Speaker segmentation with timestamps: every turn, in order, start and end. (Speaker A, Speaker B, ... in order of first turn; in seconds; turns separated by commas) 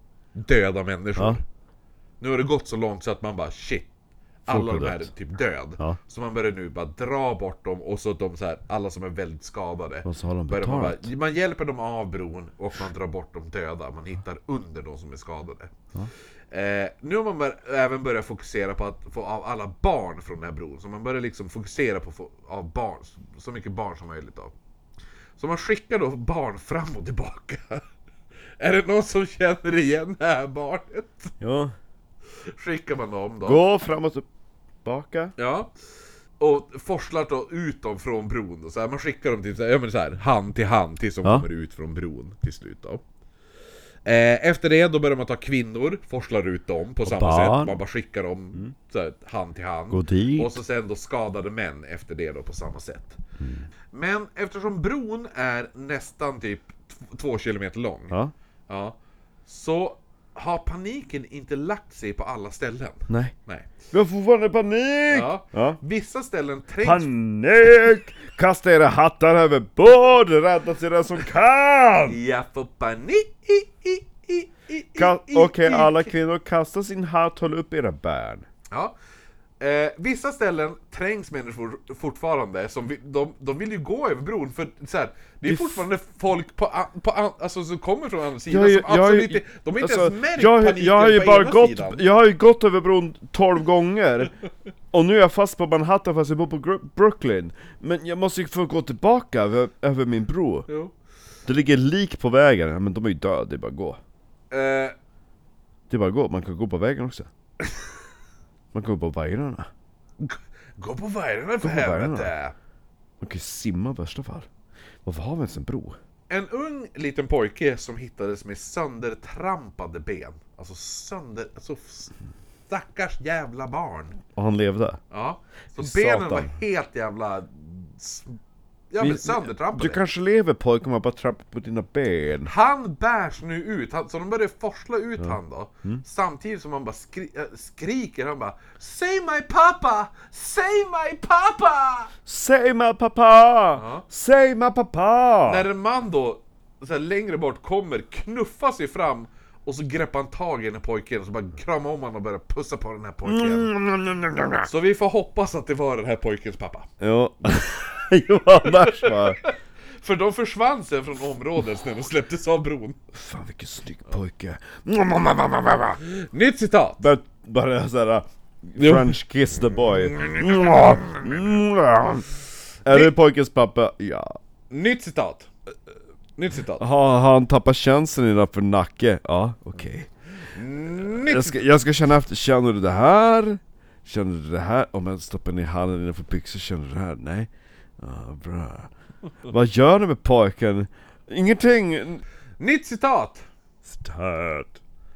Speaker A: 0.3-1.4, Speaker A: 2.2-3.9, Speaker A: 4.4-15.7, Speaker B: 4.5-5.1, Speaker B: 10.0-11.1, Speaker A: 16.5-24.5, Speaker A: 25.4-27.8, Speaker A: 28.6-31.3, Speaker B: 31.4-31.7, Speaker A: 32.6-33.6, Speaker B: 33.4-34.2, Speaker B: 34.8-35.3, Speaker A: 35.4-35.7, Speaker A: 36.4-43.0, Speaker A: 44.0-53.2, Speaker B: 47.0-47.8, Speaker B: 49.9-50.6, Speaker B: 53.4-53.7, Speaker A: 53.9-58.1, Speaker A: 58.7-59.0, Speaker A: 59.5-63.7, Speaker B: 63.1-63.3, Speaker B: 63.9-65.8, Speaker A: 65.1-67.1, Speaker B: 66.8-72.2, Speaker A: 72.1-76.1, Speaker B: 75.0-78.5, Speaker A: 79.6-92.0, Speaker B: 85.5-85.8, Speaker B: 88.5-94.3, Speaker B: 94.9-100.7, Speaker B: 101.5-104.0, Speaker A: 104.5-104.9, Speaker B: 105.9-107.3, Speaker B: 108.7-109.7, Speaker A: 110.2-112.5, Speaker B: 111.6-112.3, Speaker B: 113.2-114.5, Speaker B: 115.0-116.0, Speaker A: 116.3-122.1, Speaker A: 122.7-124.2, Speaker B: 124.3-125.0, Speaker A: 125.1-128.4, Speaker B: 125.8-126.5, Speaker A: 128.9-130.0, Speaker B: 129.0-132.5, Speaker A: 132.4-142.1, Speaker B: 135.2-136.0, Speaker B: 142.2-145.7, Speaker A: 143.8-144.0, Speaker A: 145.4-153.7, Speaker B: 153.2-154.7, Speaker A: 154.6-156.9, Speaker B: 157.0-159.4, Speaker A: 158.7-163.0, Speaker B: 163.1-166.0, Speaker A: 166.0-167.1, Speaker B: 167.0-172.3, Speaker A: 168.8-169.1, Speaker A: 170.0-171.4, Speaker B: 172.8-174.3, Speaker A: 174.7-175.5, Speaker A: 176.4-176.8, Speaker B: 176.8-180.1, Speaker A: 180.5-181.6, Speaker B: 180.9-188.9, Speaker B: 189.5-192.2, Speaker A: 192.6-193.4, Speaker B: 193.8-194.8